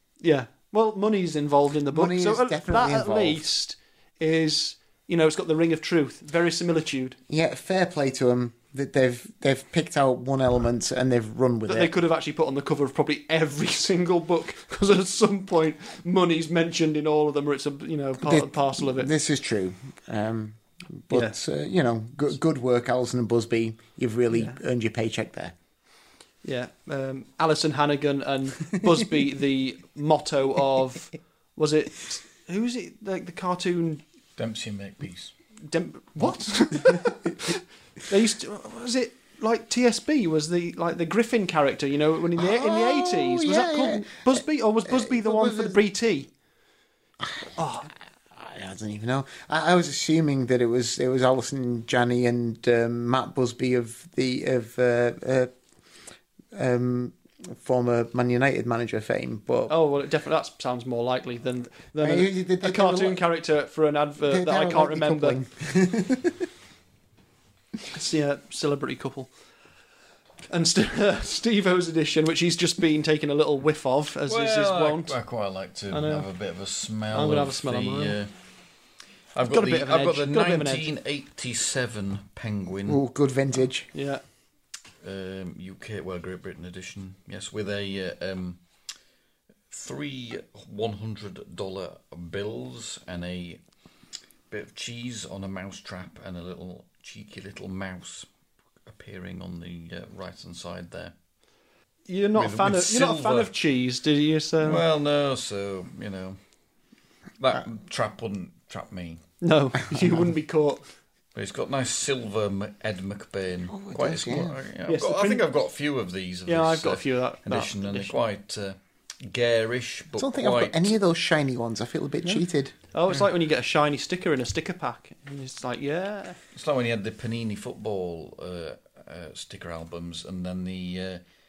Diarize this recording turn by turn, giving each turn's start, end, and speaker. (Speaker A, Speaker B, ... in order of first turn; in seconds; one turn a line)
Speaker A: 0.2-7.2
Speaker B: 1.9-3.4
Speaker B: 7.3-11.9
Speaker A: 11.7-19.1
Speaker B: 18.2-25.5
Speaker A: 24.3-24.6
Speaker A: 26.4-34.0
Speaker C: 34.4-35.3
Speaker A: 35.6-46.3
Speaker B: 42.4-45.8
Speaker B: 47.2-47.5
Speaker A: 47.6-47.9
Speaker B: 48.3-55.5
Speaker B: 56.5-59.7
Speaker A: 59.7-65.4
Speaker B: 62.0-63.2
Speaker B: 64.2-66.5
Speaker A: 67.9-69.3
Speaker A: 70.5-75.2
Speaker C: 74.3-78.3
Speaker A: 75.9-76.3
Speaker A: 77.1-78.2
Speaker C: 79.3-83.0
Speaker A: 79.5-80.9
Speaker B: 82.9-83.9
Speaker A: 83.9-84.2
Speaker C: 85.0-88.6
Speaker C: 89.7-93.6
Speaker C: 94.5-98.3
Speaker C: 98.9-101.1
Speaker A: 102.1-104.8
Speaker C: 102.3-103.5
Speaker C: 104.6-106.4
Speaker C: 107.4-109.2
Speaker A: 109.4-110.8
Speaker C: 111.3-120.9
Speaker B: 113.7-114.6
Speaker A: 114.9-115.4
Speaker A: 116.5-118.2
Speaker B: 120.2-122.7
Speaker A: 122.9-126.4
Speaker C: 126.5-131.2